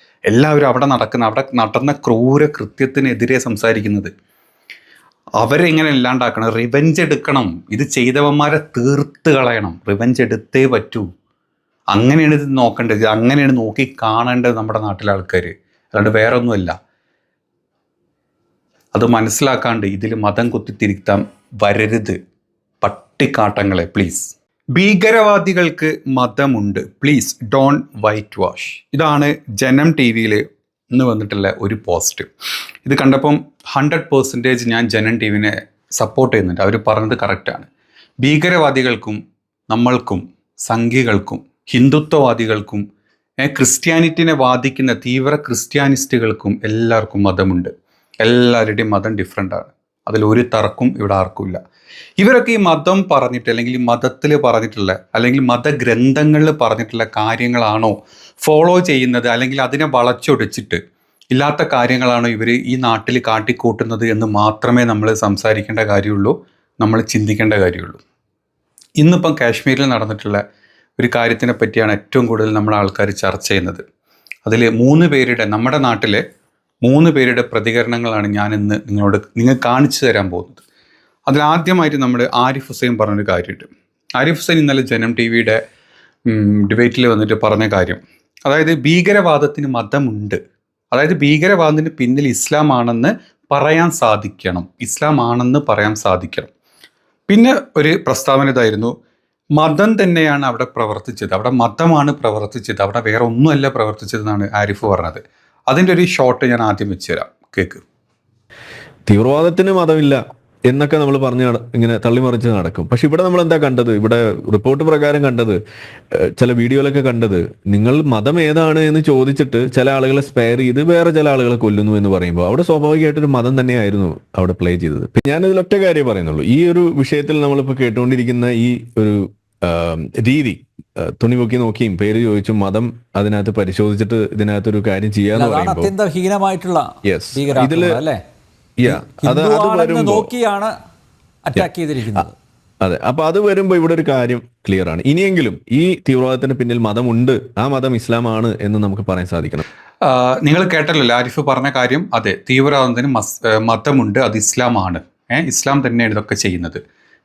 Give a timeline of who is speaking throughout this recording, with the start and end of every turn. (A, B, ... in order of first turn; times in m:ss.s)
0:00.3-0:04.1 A
0:05.4-0:11.0 A
0:11.9-0:16.7 A
0:18.9-0:22.2 A
0:22.8-0:32.3 A
0:32.8-0:37.7 A
0:38.2-0:42.8 A
0:43.4-0:47.7 A
0:48.2-0:51.6 A
0:52.2-1:00.8 A
1:01.3-1:08.0 A
1:09.0-1:10.4 A
1:11.0-1:13.8 A
1:14.4-1:16.2 A
1:16.8-1:20.6 A
1:21.3-1:25.6 A
1:26.3-1:30.4 A
1:30.9-1:36.5 A
1:37.3-1:38.9 A
1:39.6-1:47.8 A
1:49.1-1:55.6 B
1:56.4-2:15.9 B
2:15.3-2:18.2 C
2:17.0-2:18.0 B
2:18.8-2:20.3 B
2:18.8-2:20.7 C
2:21.4-2:22.3 C
2:21.6-2:22.3 B
2:22.8-2:29.6 B
2:30.0-2:36.8 A